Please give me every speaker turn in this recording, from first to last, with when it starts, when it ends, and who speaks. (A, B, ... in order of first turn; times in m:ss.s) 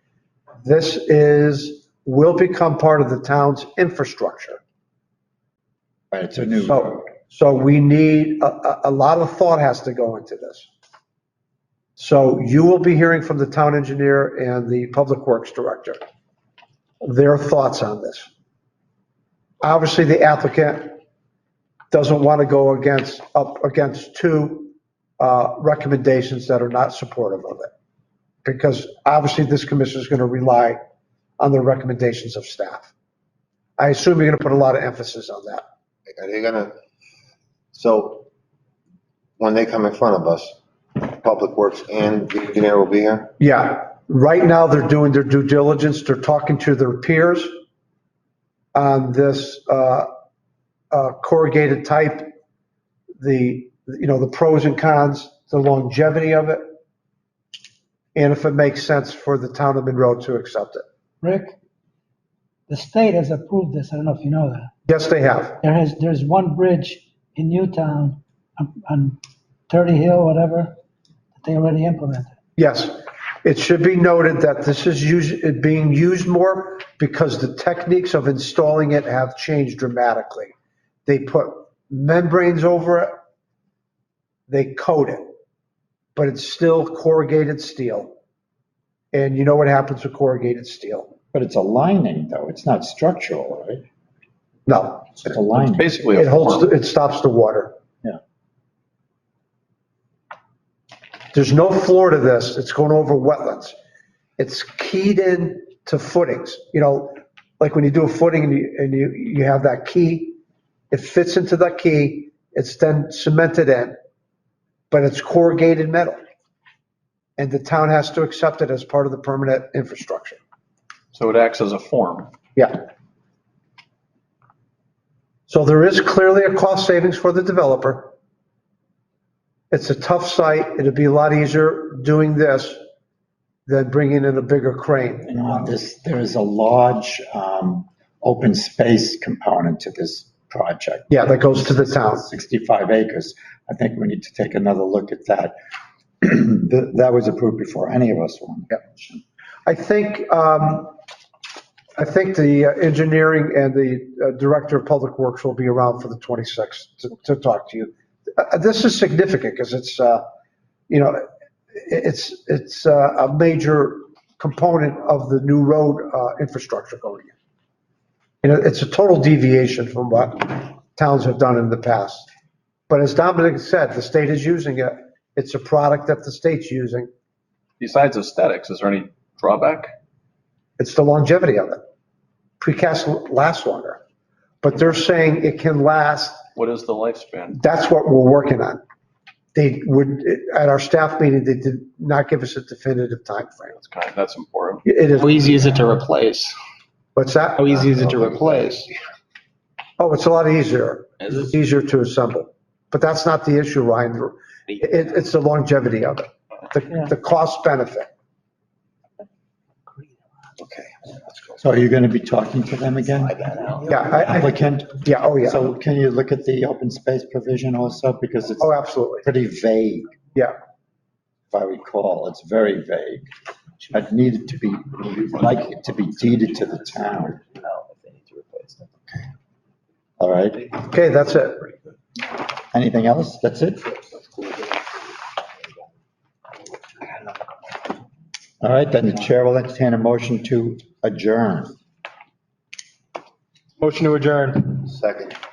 0:00.6-0:04.6 A
0:06.1-0:07.1 B
0:06.6-0:10.7 A
0:12.0-0:16.0 A
0:17.0-0:18.3 A
0:19.6-0:21.0 A
0:21.9-0:27.7 A
0:28.4-0:30.8 A
0:31.4-0:32.9 A
0:33.8-0:35.6 A
0:36.1-0:36.7 C
0:37.7-0:38.2 C
0:39.4-0:43.3 C
0:43.4-0:47.5 A
0:48.7-0:50.1 A
0:50.9-0:52.3 A
0:53.2-0:56.6 A
0:58.1-1:00.8 A
1:01.2-1:01.5 D
1:02.7-1:04.7 D
1:04.9-1:05.6 A
1:05.6-1:09.2 D
1:09.7-1:10.8 D
1:11.4-1:12.3 D
1:12.6-1:20.5 A
1:21.0-1:23.1 A
1:24.5-1:25.3 A
1:26.2-1:28.1 A
1:29.1-1:31.1 A
1:31.3-1:33.8 B
1:34.7-1:35.3 A
1:35.2-1:35.9 B
1:35.6-1:36.7 E
1:36.1-1:37.7 A
1:41.3-1:43.7 A
1:44.4-1:50.4 A
1:50.9-1:54.0 A
1:54.9-1:56.2 A
1:57.4-2:00.4 A
2:01.1-2:02.3 E
2:05.5-2:08.1 A
2:09.7-2:12.8 A
2:13.7-2:15.6 A
2:15.2-2:25.5 B
2:21.1-2:22.2 A
2:26.2-2:29.2 B
2:29.6-2:30.9 A
2:32.0-2:40.2 A
2:40.9-2:47.3 A
2:48.4-2:52.3 A
2:52.9-2:57.1 A
2:57.8-2:59.9 E
3:00.8-3:01.8 A
3:02.6-3:04.0 A
3:04.6-3:06.4 A
3:06.5-3:07.6 E
3:07.5-3:08.8 A
3:09.5-3:13.8 A
3:13.8-3:14.8 E
3:14.8-3:15.6 A
3:15.2-3:16.5 F
3:17.1-3:17.9 A
3:17.6-3:18.9 F
3:20.0-3:28.1 A
3:31.6-3:40.1 B
3:33.9-3:34.5 A
3:35.0-3:35.6 A
3:38.6-3:39.2 A
3:41.5-3:43.3 B
3:43.9-3:47.4 B
3:47.4-3:49.2 F
3:50.2-3:50.7 B
3:50.9-3:51.7 A
3:52.7-3:54.0 B
3:58.6-4:01.8 B
4:03.8-4:04.7 F
4:04.8-4:05.3 C